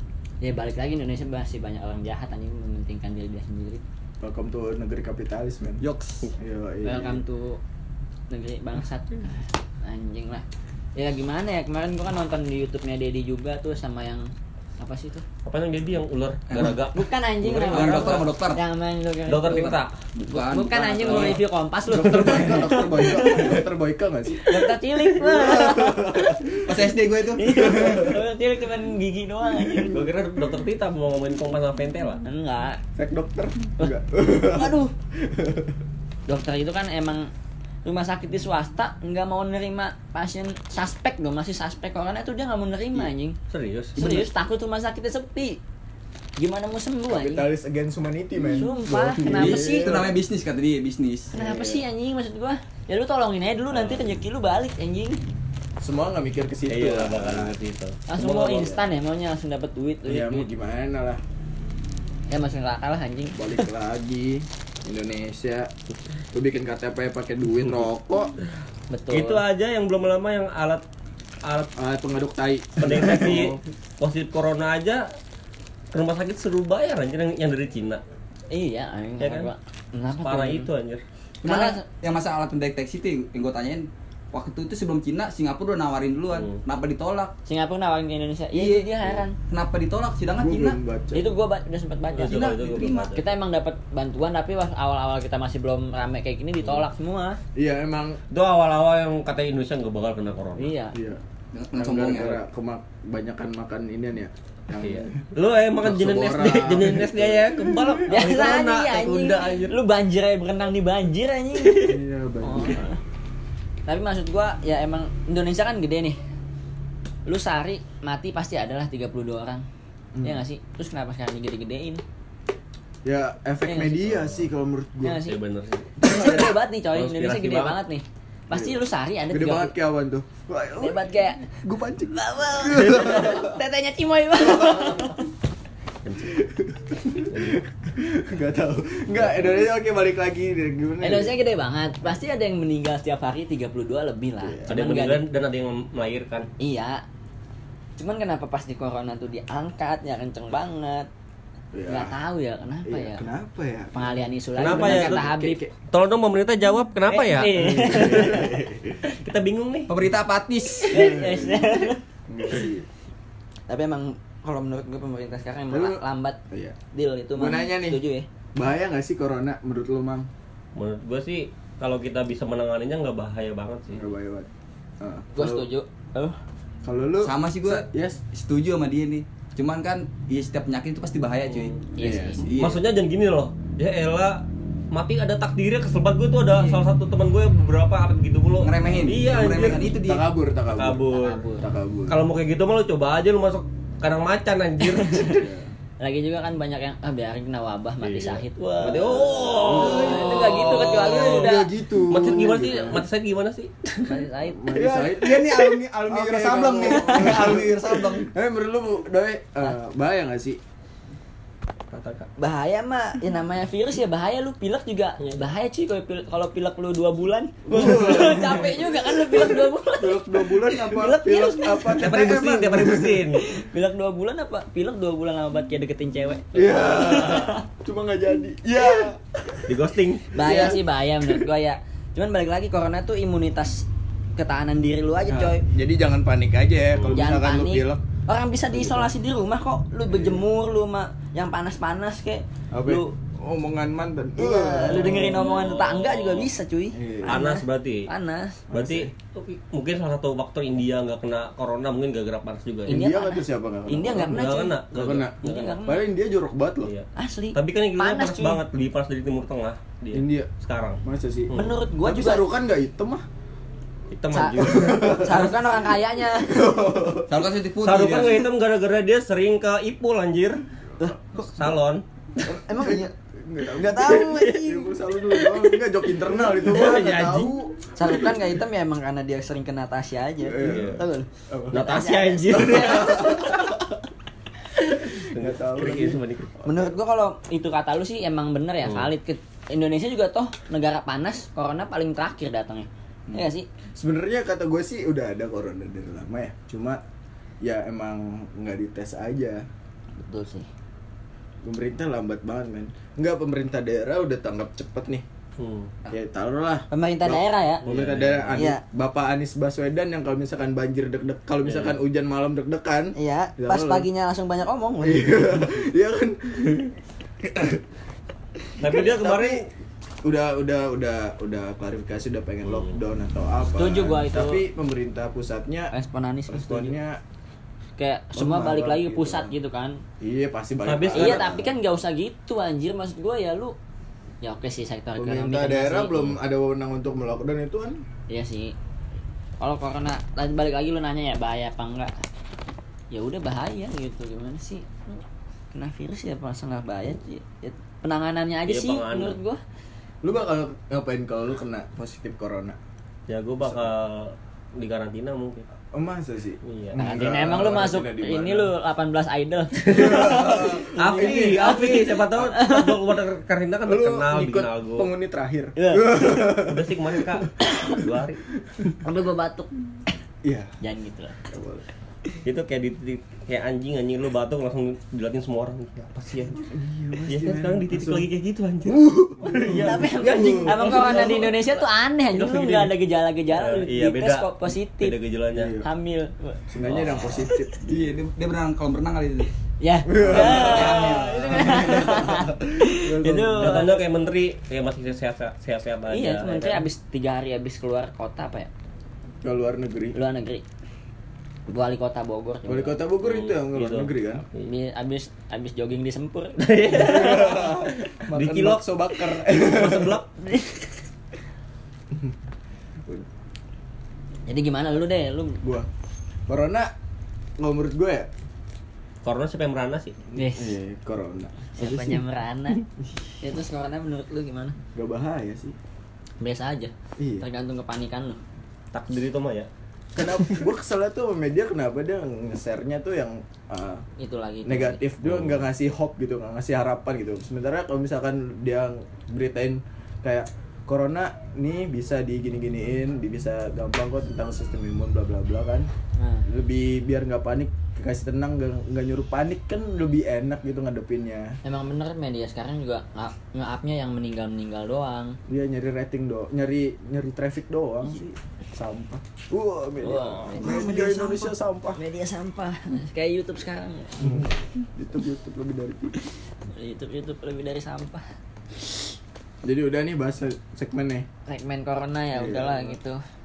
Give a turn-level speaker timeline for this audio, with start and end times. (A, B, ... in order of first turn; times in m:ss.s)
0:00.4-0:03.8 A
0:04.2-0:05.8 B
0:05.8-0:06.3 C
0:06.4-0:07.2 B
0:06.8-0:07.6 A
0:08.3-0:15.2 A
0:15.4-0:18.3 D
0:16.5-0:16.8 C
0:16.9-0:19.8 A
0:17.5-0:18.6 C
0:19.3-0:19.9 D
0:19.4-0:21.4 C
0:20.3-0:23.6 A
0:21.1-0:21.4 B
0:21.9-0:26.9 B
0:24.4-0:26.4 A
0:26.6-0:28.1 C
0:27.3-0:30.0 A
0:27.5-0:28.2 B
0:29.4-0:30.0 B
0:29.9-0:32.2 D
0:32.2-0:32.8 A
0:33.0-0:35.8 B
0:33.8-0:34.9 A
0:36.3-0:37.3 A
0:37.8-0:43.4 A
0:43.5-0:44.0 D
0:44.0-0:45.6 A
0:44.0-0:44.3 C
0:46.4-0:47.4 A
0:47.1-0:50.2 B
0:48.4-0:50.1 A
0:49.2-0:51.3 C
0:51.3-0:51.8 B
0:51.3-0:55.2 A
0:53.7-0:54.2 D
0:55.8-0:57.6 B
0:56.7-0:58.8 D
0:58.1-1:00.5 A
1:00.0-1:01.2 B
1:02.3-1:03.7 A
1:03.3-1:05.7 B
1:06.3-1:08.4 B
1:08.9-1:09.4 A
1:09.1-1:10.8 D
1:11.4-1:11.7 D
1:11.8-1:13.6 B
1:12.8-1:15.1 D
1:15.9-1:18.0 D
1:18.5-1:20.7 A
1:19.2-1:19.5 D
1:20.2-1:21.0 D
1:21.4-1:21.8 A
1:21.4-1:27.3 C
1:26.3-1:26.6 D
1:27.4-1:29.4 A
1:28.5-1:30.8 C
1:30.4-1:31.3 B
1:31.1-1:32.5 A
1:32.2-1:33.3 D
1:32.3-1:33.2 C
1:33.1-1:37.4 A
1:37.5-1:38.2 B
1:38.3-1:40.7 D
1:40.6-1:40.9 A
1:40.9-1:41.2 B
1:41.5-1:42.4 C
1:41.7-1:45.3 B
1:44.8-1:49.8 D
1:45.8-1:48.1 B
1:48.1-1:53.0 A
1:51.8-1:52.9 B
1:53.9-1:56.2 A
1:57.2-1:59.6 A
2:00.1-2:00.4 B
2:00.2-2:02.0 A
2:03.0-2:05.2 B
2:03.6-2:04.0 A
2:04.0-2:04.5 D
2:05.0-2:05.4 A
2:05.2-2:07.8 D
2:06.0-2:09.7 A
2:06.0-2:06.4 B
2:08.5-2:13.6 B
2:10.8-2:11.5 A
2:12.1-2:15.3 A
2:14.6-2:14.9 B
2:16.0-2:16.4 D
2:16.2-2:21.3 B
2:17.3-2:17.6 D
2:19.2-2:19.6 D
2:21.0-2:25.2 A
2:24.4-2:24.7 B
2:24.7-2:26.5 D
2:26.6-2:27.0 A
2:28.0-2:31.1 A
2:31.7-2:32.2 B
2:31.9-2:33.2 A
2:32.8-2:35.7 B
2:33.9-2:35.6 A
2:34.6-2:35.3 D
2:35.9-2:38.5 D
2:37.1-2:38.6 A
2:37.5-2:39.0 B
2:39.1-2:39.9 D
2:39.9-2:41.1 C
2:40.9-2:42.0 A
2:40.9-2:42.9 B
2:43.7-2:46.4 A
2:45.7-2:46.8 B
2:46.9-2:48.3 A
2:47.4-2:48.0 B
2:48.5-2:50.3 B
2:50.7-2:54.1 D
2:53.9-2:54.5 B
2:55.0-2:55.7 B
2:55.4-2:56.4 A
2:56.8-2:58.2 B
2:57.2-3:01.8 C
3:01.5-3:01.8 D
3:01.9-3:02.4 A
3:02.0-3:02.6 B
3:02.4-3:02.8 C
3:02.6-3:09.9 D
3:08.6-3:10.2 C
3:09.4-3:12.2 B
3:10.7-3:11.4 D
3:11.1-3:11.6 A
3:12.1-3:15.4 D
3:14.8-3:15.4 A
3:15.3-3:15.7 B
3:16.0-3:21.7 A
3:18.0-3:24.1 D
3:19.6-3:23.0 B
3:19.7-3:21.4 C
3:24.0-3:24.7 A
3:24.5-3:30.6 B
3:24.7-3:28.3 C
3:26.8-3:27.6 A
3:31.9-3:32.3 D
3:32.4-3:42.1 A
3:37.7-3:43.3 B
3:41.9-3:43.3 C
3:42.2-3:43.4 D
3:43.4-3:47.6 A
3:46.5-3:49.8 B
3:49.7-3:50.7 D
3:50.3-3:55.6 A
3:50.3-3:51.5 B
3:55.2-3:58.0 B
3:56.9-3:57.2 D
3:57.1-4:03.1 A
3:58.7-3:59.1 B
4:00.1-4:00.4 B
4:02.7-4:05.5 B
4:04.4-4:08.6 A
4:04.9-4:06.5 D
4:06.9-4:07.4 B
4:07.2-4:08.1 D
4:08.7-4:09.1 B
4:08.7-4:13.0 D
4:12.9-4:14.8 A
4:12.9-4:16.9 B
4:14.2-4:15.8 D
4:15.4-4:16.1 A
4:16.8-4:21.7 D
4:17.2-4:18.6 A
4:20.1-4:20.5 B
4:21.0-4:23.2 B
4:21.5-4:22.5 A
4:24.1-4:25.5 D
4:24.3-4:26.6 A
4:24.6-4:25.6 B
4:26.3-4:27.4 B
4:27.3-4:28.4 C
4:27.8-4:30.6 D
4:31.0-4:31.7 A
4:31.5-4:32.0 D
4:32.4-4:35.5 A
4:32.5-4:38.4 B
4:36.4-4:37.2 A
4:36.7-4:37.5 D
4:37.9-4:43.6 A
4:40.4-4:41.9 B
4:40.6-4:41.0 D
4:41.7-4:43.5 D
4:42.5-4:44.0 B
4:45.0-4:46.9 B
4:45.1-4:46.5 D
4:46.6-4:53.7 A
4:48.8-4:49.1 D
4:53.3-4:57.0 B
4:57.6-4:59.7 B
5:00.2-5:00.7 A
5:01.6-5:05.2 B
5:05.6-5:05.9 D
5:06.1-5:14.1 B
5:06.9-5:07.8 A
5:07.8-5:08.7 D
5:08.5-5:08.8 A
5:11.6-5:12.0 D
5:13.1-5:15.3 A
5:15.0-5:17.8 B
5:18.6-5:19.7 B
5:18.8-5:19.7 D
5:20.2-5:25.9 B
5:22.6-5:23.0 D
5:23.6-5:24.6 A
5:25.9-5:26.9 A
5:26.5-5:27.2 B
5:28.0-5:30.0 A
5:28.3-5:29.5 B
5:30.2-5:31.7 B
5:30.8-5:31.4 D
5:31.1-5:33.8 A
5:34.4-5:36.4 A
5:35.2-5:38.0 B
5:38.3-5:38.7 A
5:39.6-5:42.1 A
5:43.1-5:49.6 A
5:48.7-5:49.4 D
5:50.2-5:52.8 B
5:53.3-5:55.6 D
5:53.6-5:53.9 B
5:55.9-5:58.7 B
5:56.6-5:57.0 D
5:57.0-6:03.0 A
5:59.8-6:05.1 D
5:59.8-6:01.9 B
6:03.8-6:07.6 B
6:05.8-6:06.1 A
6:06.4-6:08.4 D
6:07.6-6:08.0 A
6:09.0-6:09.7 A
6:10.4-6:10.7 B
6:10.8-6:11.4 A
6:11.4-6:11.8 B
6:12.4-6:16.7 D
6:16.7-6:18.3 B
6:17.2-6:21.5 D
6:18.8-6:21.5 B
6:19.6-6:25.2 A
6:22.3-6:22.9 D
6:23.5-6:25.8 D
6:25.5-6:25.9 B
6:25.8-6:27.6 A
6:26.7-6:28.2 B
6:26.8-6:27.4 D
6:27.8-6:29.5 C
6:29.8-6:34.0 A
6:30.0-6:33.9 B
6:30.2-6:31.9 C
6:33.6-6:36.8 D
6:36.1-6:38.7 A
6:39.4-6:40.2 B
6:40.1-6:40.6 A
6:41.7-6:43.0 A
6:42.6-6:44.4 B
6:43.2-6:44.7 D
6:44.6-6:47.4 A
6:46.6-6:50.3 D
6:46.9-6:50.2 B
6:50.4-6:51.0 A
6:52.1-6:52.4 B
6:54.5-6:55.6 A
6:55.6-6:55.9 B
6:56.5-6:56.9 B
6:57.6-6:58.3 B
6:59.2-7:00.2 D
7:00.4-7:00.8 A
7:00.4-7:02.2 B
7:01.8-7:02.8 A
7:03.4-7:04.8 A
7:04.9-7:05.8 B
7:06.4-7:08.4 A
7:07.2-7:07.4 B
7:08.9-7:09.7 D
7:10.1-7:14.0 B
7:14.2-7:15.0 A
7:14.6-7:25.9 B
7:15.2-7:15.6 D
7:26.2-7:26.5 A
7:26.4-7:31.6 B
7:31.6-7:35.4 A
7:35.5-7:38.2 B
7:38.7-7:42.0 B
7:40.0-7:44.5 A
7:40.5-7:41.5 C
7:44.2-7:46.2 B
7:46.2-7:48.2 A
7:49.6-7:51.3 B
7:51.4-7:53.2 A
7:52.3-7:53.0 B